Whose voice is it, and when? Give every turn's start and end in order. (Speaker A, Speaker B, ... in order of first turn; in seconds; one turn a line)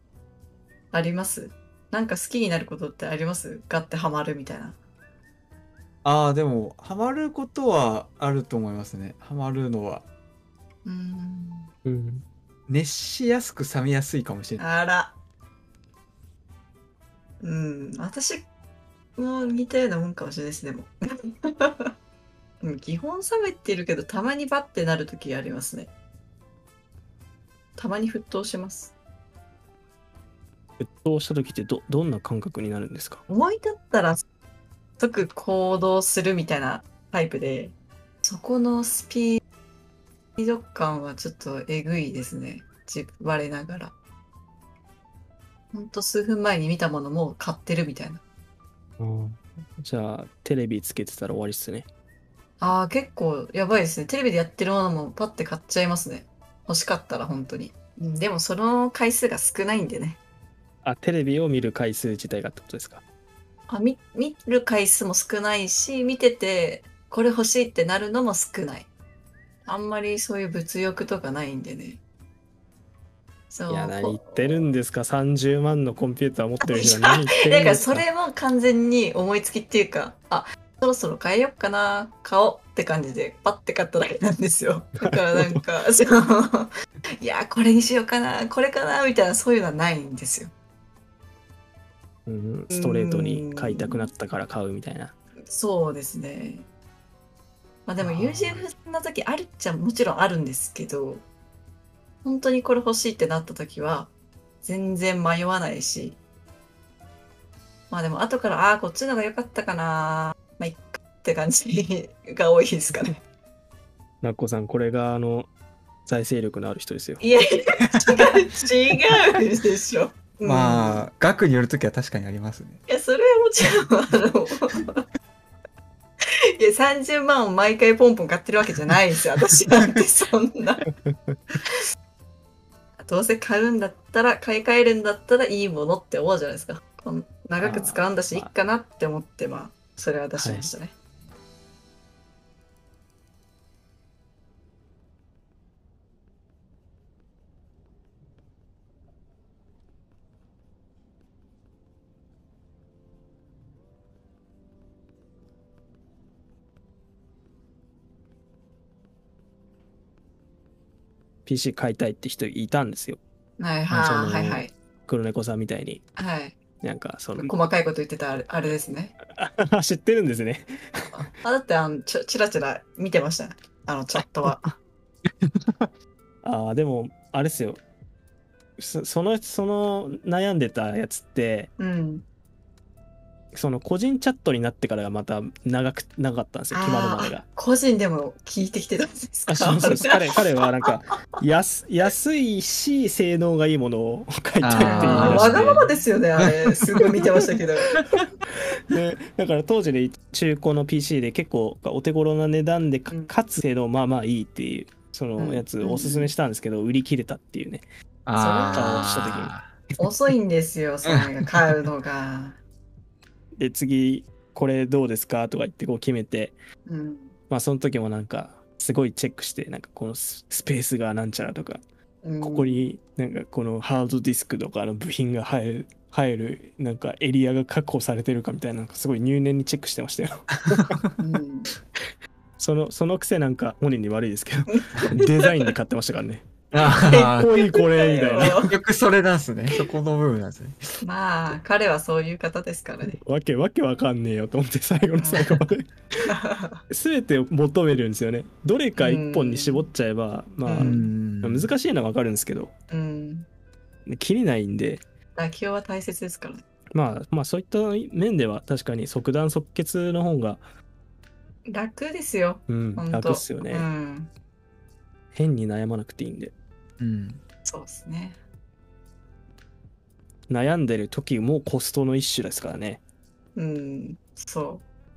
Speaker A: 0.9-4.8
Speaker B: 6.0-10.1
Speaker A: 10.8-11.7
Speaker C: 11.8-12.2
Speaker B: 12.7-14.6
Speaker A: 14.6-15.2
Speaker A: 17.4-18.5
Speaker A: 19.2-21.9
Speaker A: 22.6-25.9
Speaker A: 27.8-28.9
Speaker C: 30.8-33.2
Speaker A: 33.3-34.2
Speaker A: 35.0-39.4
Speaker A: 40.4-44.0
Speaker A: 45.7-48.2
Speaker C: 49.0-51.9
Speaker A: 52.6-60.2
Speaker C: 60.8-63.0
Speaker A: 63.7-68.9
Speaker A: 69.7-72.0
Speaker A: 73.5-74.7
Speaker C: 73.7-78.0
Speaker A: 76.6-90.5
Speaker C: 85.0-85.6
Speaker C: 92.3-95.2
Speaker A: 92.7-94.1
Speaker A: 95.5-96.7
Speaker A: 97.9-101.3
Speaker C: 98.0-98.7
Speaker A: 102.2-104.1
Speaker A: 104.6-106.2
Speaker A: 107.9-113.2
Speaker C: 112.9-113.2
Speaker C: 114.2-115.5
Speaker C: 116.1-117.2
Speaker A: 117.2-121.1
Speaker B: 120.4-122.8
Speaker A: 122.9-125.0
Speaker A: 126.6-130.9
Speaker C: 131.1-131.4
Speaker A: 133.0-140.9
Speaker C: 137.6-138.5
Speaker C: 140.3-140.7
Speaker C: 161.5-163.2
Speaker A: 163.6-164.7
Speaker C: 163.9-166.1
Speaker A: 166.2-166.6
Speaker C: 166.8-167.5
Speaker A: 167.4-169.2
Speaker C: 169.3-171.2
Speaker A: 171.1-174.7
Speaker C: 174.2-174.7
Speaker C: 176.4-177.8
Speaker C: 178.8-181.7
Speaker A: 181.8-182.3
Speaker C: 183.5-187.4
Speaker A: 186.7-190.2
Speaker C: 189.5-195.9
Speaker B: 194.6-195.8
Speaker A: 194.8-197.9
Speaker B: 196.4-197.0
Speaker C: 196.9-197.2
Speaker C: 198.9-207.9
Speaker A: 203.1-203.3
Speaker A: 205.4-206.3
Speaker B: 208.3-209.8
Speaker A: 208.3-209.1
Speaker C: 208.7-209.5
Speaker A: 210.0-212.6
Speaker B: 211.1-211.4
Speaker C: 213.6-216.6
Speaker A: 216.9-217.3
Speaker C: 217.5-221.8
Speaker A: 222.2-222.8
Speaker C: 222.4-231.1
Speaker A: 231.2-231.7
Speaker C: 232.6-238.7
Speaker A: 234.7-235.5
Speaker B: 236.7-237.5
Speaker A: 237.1-238.7
Speaker B: 238.3-240.8
Speaker A: 241.0-243.2
Speaker C: 243.1-245.9
Speaker A: 245.2-245.6
Speaker A: 246.3-246.8
Speaker C: 246.9-252.7
Speaker A: 249.0-249.9
Speaker A: 250.7-251.0
Speaker B: 250.8-251.7
Speaker A: 252.9-253.5
Speaker C: 254.1-255.0
Speaker A: 255.4-256.6
Speaker C: 256.9-260.6
Speaker A: 261.7-264.3
Speaker C: 262.7-263.9
Speaker C: 265.3-266.5
Speaker B: 267.0-267.4
Speaker A: 267.6-268.4
Speaker C: 270.5-273.0
Speaker A: 273.6-274.9